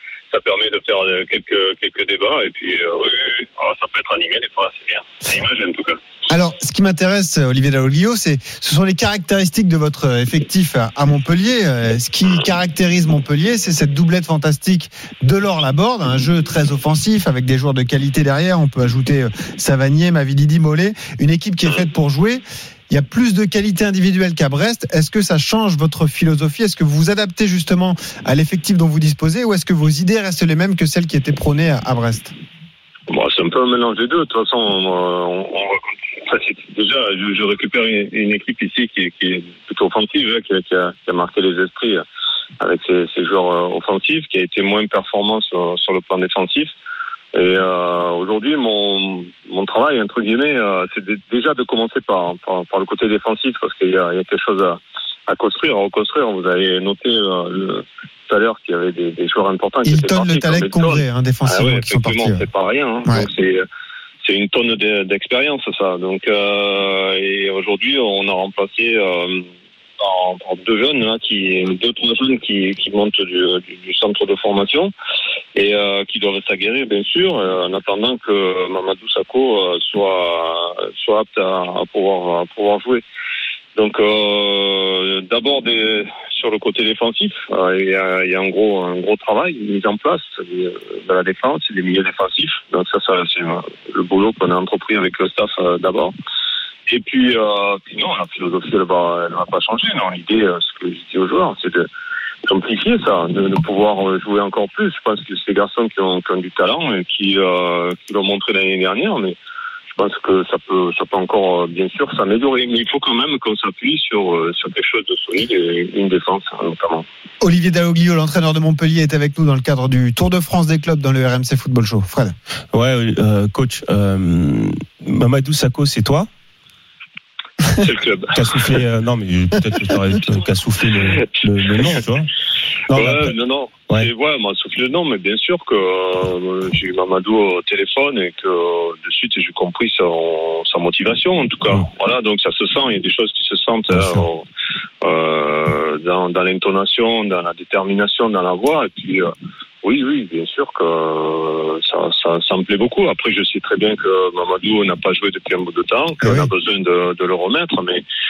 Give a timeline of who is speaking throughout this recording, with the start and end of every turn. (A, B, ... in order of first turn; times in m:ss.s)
0:00.3-0:06.0 A
0:06.3-0:32.3 B
0:33.1-0:42.0 A
0:42.6-0:46.7 A
0:47.3-1:03.6 A
0:59.8-1:02.4 B
1:04.2-1:14.9 A
1:15.6-1:23.0 A
1:23.8-1:36.1 A
1:36.9-1:41.9 A
1:42.5-1:49.4 A
1:49.9-1:57.0 A
1:57.4-2:02.4 B
2:02.7-2:06.3 C
2:07.8-2:08.4 A
2:08.3-2:12.3 C
2:12.9-2:13.4 C
2:12.9-2:24.4 A
2:24.0-2:24.2 C
2:25.0-2:29.3 A
2:29.8-2:38.0 A
2:36.2-2:36.5 B